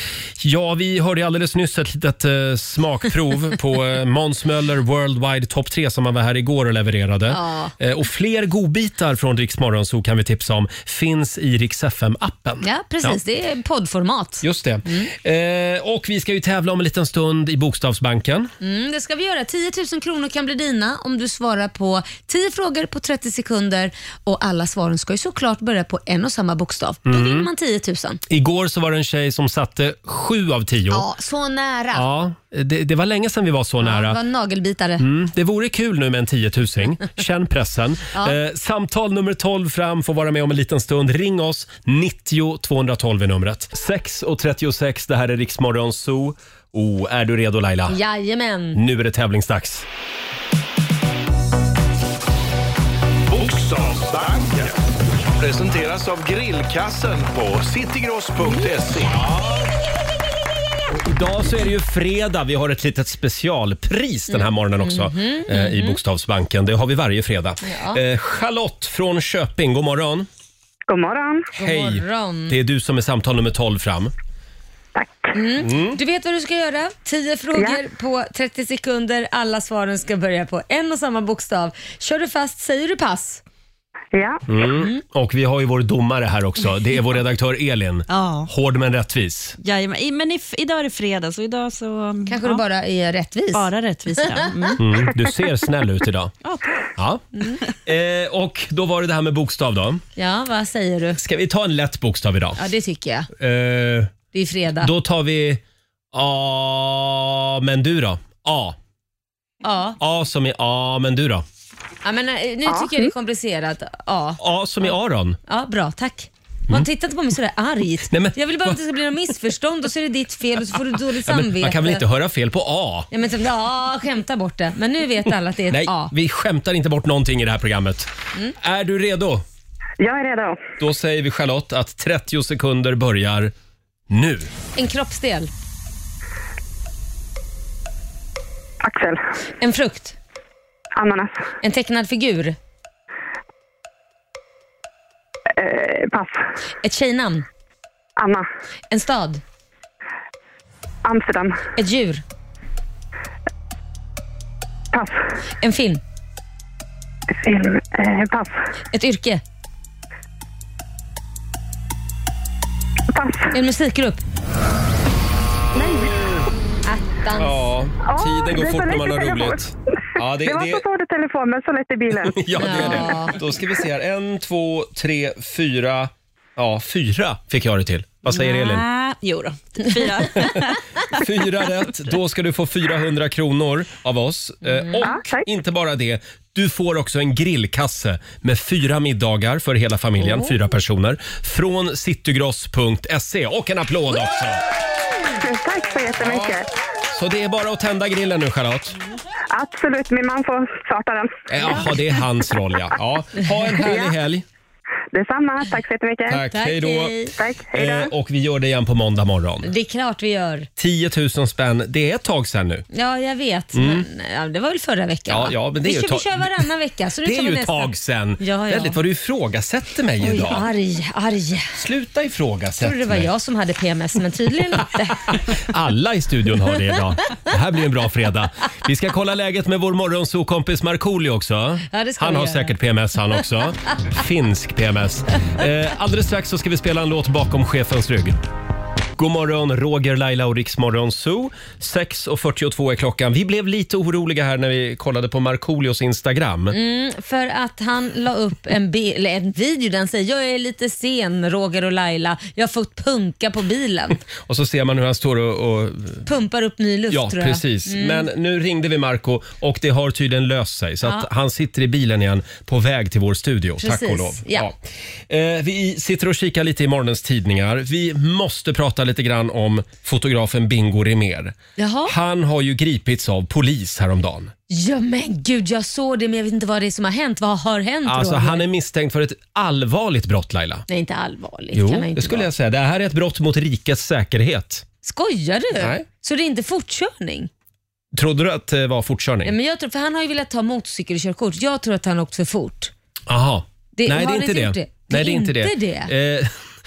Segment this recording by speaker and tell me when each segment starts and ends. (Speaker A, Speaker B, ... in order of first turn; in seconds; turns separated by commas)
Speaker A: 0.4-13.2, Speaker B: 7.3-7.7, Speaker B: 12.6-15.1, Speaker A: 14.4-18.5, Speaker B: 18.6-28.2, Speaker A: 27.1-27.5, Speaker A: 28.3-31.1, Speaker B: 30.9-32.0, Speaker A: 31.9-34.2, Speaker B: 33.8-35.0, Speaker A: 35.0-48.0, Speaker B: 47.9-48.8, Speaker A: 48.7-49.9, Speaker C: 53.3-54.8, Speaker C: 55.4-59.3, Speaker A: 60.9-70.3, Speaker B: 64.3-66.0, Speaker B: 67.6-68.0, Speaker D: 70.9-71.5, Speaker B: 71.5-72.5, Speaker A: 71.6-74.1, Speaker D: 75.0-75.3, Speaker B: 75.3-83.4, Speaker A: 75.6-76.0, Speaker D: 84.1-84.4, Speaker A: 84.5-89.5, Speaker B: 84.7-85.0, Speaker E: 88.1-88.5, Speaker E: 89.6-92.6, Speaker B: 92.3-94.7, Speaker E: 93.5-94.8, Speaker A: 94.8-96.3, Speaker E: 96.4-96.8, Speaker A: 97.0-97.2, Speaker A: 97.8-100.0, Speaker B: 100.2-101.2, Speaker A: 101.2-102.6, Speaker B: 102.6-103.3, Speaker A: 103.3-104.1, Speaker B: 104.3-104.9, Speaker A: 104.8-105.6, Speaker A: 106.1-108.8, Speaker B: 109.6-110.0, Speaker A: 110.0-111.4, Speaker B: 112.0-114.9, Speaker D: 112.7-113.0, Speaker A: 114.4-115.4, Speaker B: 115.5-122.0, Speaker A: 118.1-118.8, Speaker A: 121.2-123.1, Speaker B: 123.1-126.1, Speaker A: 125.7-129.4, Speaker D: 130.0-130.6, Speaker A: 130.8-133.5, Speaker A: 134.1-134.5, Speaker B: 134.8-135.5, Speaker D: 138.8-139.2, Speaker B: 139.6-140.2, Speaker D: 140.9-141.5, Speaker B: 141.6-142.6, Speaker D: 145.6-146.4, Speaker B: 146.8-147.4, Speaker D: 148.2-148.5, Speaker B: 148.9-149.4, Speaker D: 151.0-151.6, Speaker B: 151.8-152.2, Speaker D: 154.9-155.2, Speaker B: 155.6-156.0, Speaker D: 157.4-158.6, Speaker B: 158.9-159.4, Speaker D: 163.1-163.5, Speaker B: 163.5-164.2, Speaker D: 165.7-166.2, Speaker B: 166.8-167.5, Speaker A: 167.3-170.8, Speaker D: 168.1-169.6, Speaker D: 170.4-172.9, Speaker A: 172.1-178.8, Speaker B: 172.6-173.4, Speaker E: 178.3-180.8, Speaker A: 180.3-180.6, Speaker A: 181.1-194.6, Speaker D: 185.0-185.4, Speaker D: 195.3-196.6, Speaker A: 196.2-196.6, Speaker A: 197.1-199.0, Speaker D: 199.5-201.8, Speaker A: 201.5-204.4, Speaker D: 203.8-204.1, Speaker D: 205.1-206.4, Speaker A: 206.3-207.2, Speaker B: 206.5-207.3, Speaker D: 207.4-208.1, Speaker A: 207.7-209.7, Speaker B: 209.6-210.7, Speaker A: 210.8-212.8, Speaker B: 212.9-219.0, Speaker A: 213.7-214.1, Speaker A: 215.3-216.7, Speaker A: 217.2-220.7, Speaker B: 220.2-221.7, Speaker A: 221.8-223.3, Speaker B: 222.8-225.3, Speaker A: 224.8-238.4, Speaker B: 231.9-232.7, Speaker A: 239.2-246.7, Speaker B: 246.7-254.2, Speaker A: 254.4-256.2, Speaker B: 256.2-258.3, Speaker A: 257.1-264.8, Speaker B: 263.8-264.7, Speaker A: 265.3-271.5, Speaker B: 271.8-272.1, Speaker A: 272.1-274.5, Speaker B: 274.7-278.6, Speaker A: 278.1-280.8, Speaker B: 280.9-282.5, Speaker A: 281.7-284.8, Speaker B: 285.0-287.5, Speaker A: 285.8-286.0, Speaker A: 288.1-289.5, Speaker B: 289.4-292.9, Speaker A: 293.3-296.5, Speaker B: 293.9-296.1